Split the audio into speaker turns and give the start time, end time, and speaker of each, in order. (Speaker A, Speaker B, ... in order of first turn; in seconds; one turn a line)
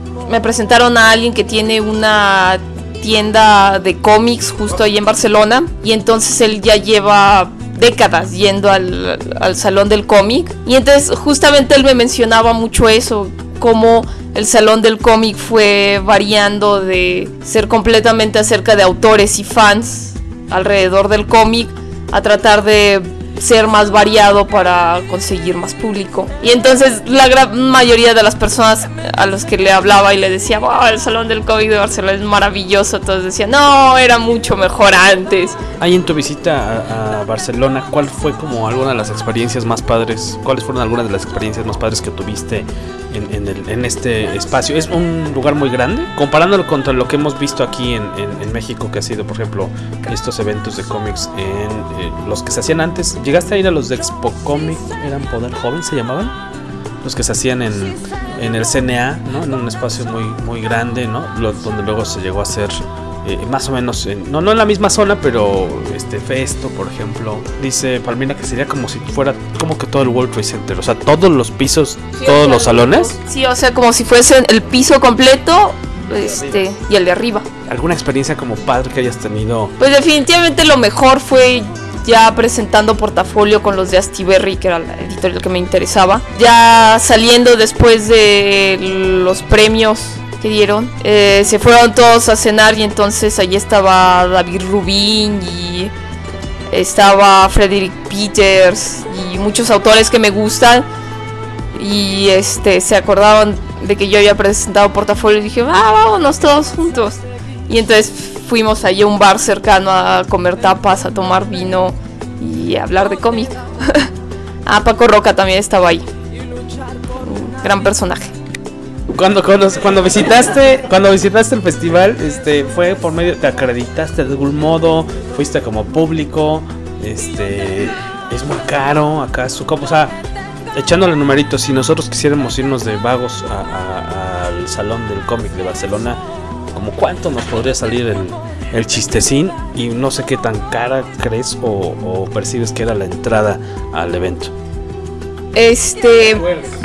Speaker A: 0.3-35.6
Speaker B: 35.8-56.4
Speaker B: 57.0-73.2
Speaker A: 72.2-77.5
Speaker B: 77.7-79.8
Speaker A: 79.8-95.9
Speaker A: 96.7-100.9
Speaker A: 101.8-114.1
Speaker A: 114.7-116.1
Speaker A: 117.2-118.3
Speaker B: 119.1-130.2
Speaker B: 130.8-136.2
Speaker B: 136.7-144.5
Speaker A: 145.5-146.5